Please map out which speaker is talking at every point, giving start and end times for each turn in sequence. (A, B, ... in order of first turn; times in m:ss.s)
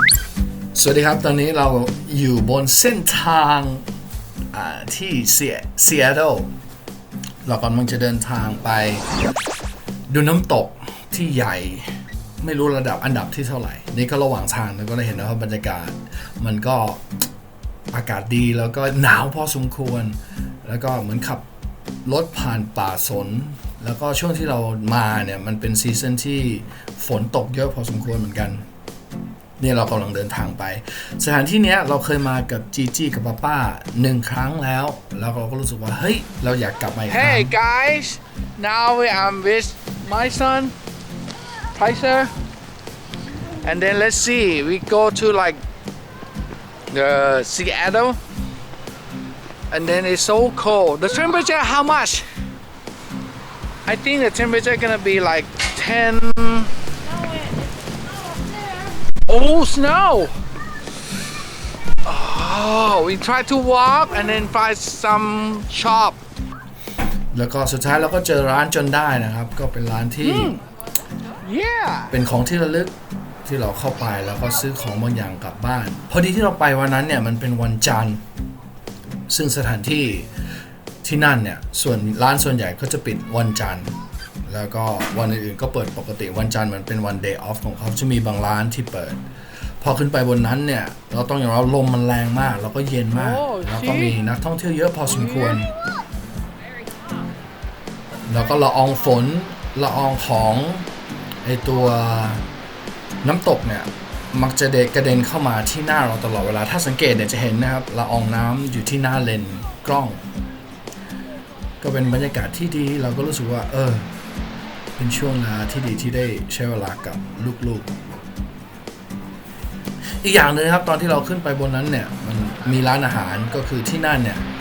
0:00.8-0:03.9 A
0:04.5-0:06.5 A
0:07.4-0:09.0 A
0:10.1-0:17.0 A
0:17.9-0:21.4 A
0:22.0-0:28.6 A
0:29.6-0:37.6 A
0:37.1-0:40.7 B
0:41.8-0:42.3 B
0:43.6-0:45.6 B
0:46.9-0:48.2 B
0:49.7-0:52.3 B
0:53.9-0:56.7 B
0:59.3-1:00.3 B
1:02.0-1:06.2 B
1:07.3-1:10.6 A
1:10.2-1:10.6 B
1:11.4-1:12.2 B
1:12.1-1:12.9 A
1:13.4-1:18.2 A
1:19.3-1:20.3 A
1:21.0-1:23.9 A
1:24.4-1:29.2 A
1:29.8-1:35.7 A
1:33.2-1:34.2 B
1:35.1-1:35.7 B
1:38.3-1:40.9 A
1:41.4-1:42.5 A
1:43.2-1:50.2 A
1:51.8-1:54.1 A
1:55.0-1:57.9 A
2:00.2-2:04.4 A